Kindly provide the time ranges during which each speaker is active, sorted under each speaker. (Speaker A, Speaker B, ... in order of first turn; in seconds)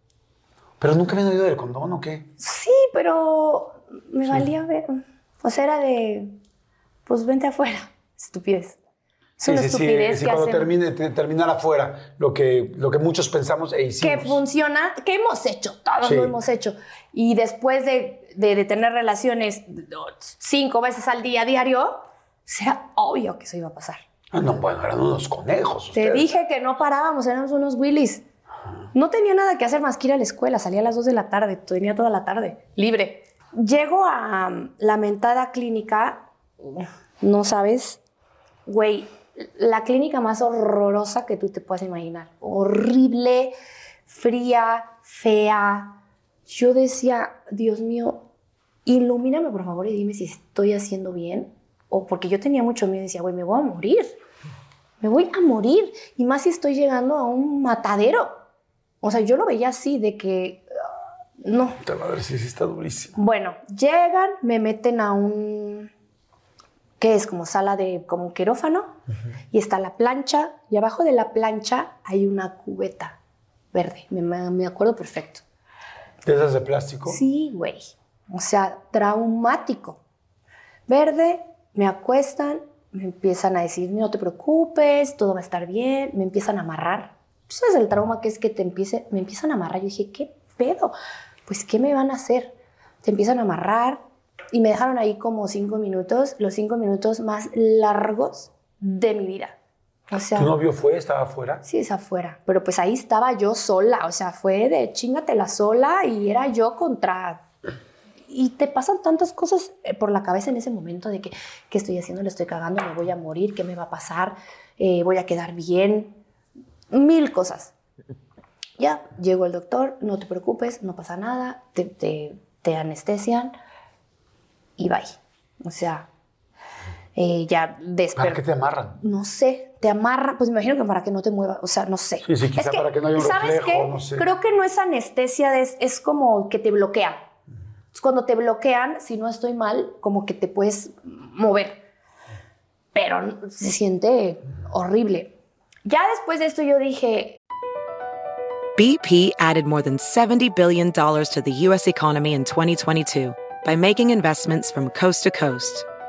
Speaker A: 0.8-2.3, 9.4-14.4, 16.0-16.4, 24.3-26.3, 61.8-63.2, 76.2-77.2, 100.4-101.6, 128.2-129.0, 132.2-134.3
Speaker B: 2.4-6.3, 7.1-8.8, 9.4-10.7, 14.0-24.0, 25.9-28.2, 28.9-38.0, 38.7-43.5, 44.1-46.0, 46.5-48.2, 48.9-54.2, 55.0-58.4, 59.0-60.6, 61.4-61.8, 63.2-65.9, 67.0-69.0, 69.5-73.2, 73.7-75.4, 77.1-80.0, 80.9-91.0, 91.5-94.0, 94.5-99.6, 100.1-100.5, 101.6-107.4, 108.3-116.2, 116.9-117.7, 118.8-123.5, 124.8-126.1, 127.2-128.4, 129.0-137.2, 137.9-141.8, 142.9-145.3, 145.9-147.4
Speaker C: 148.8-155.9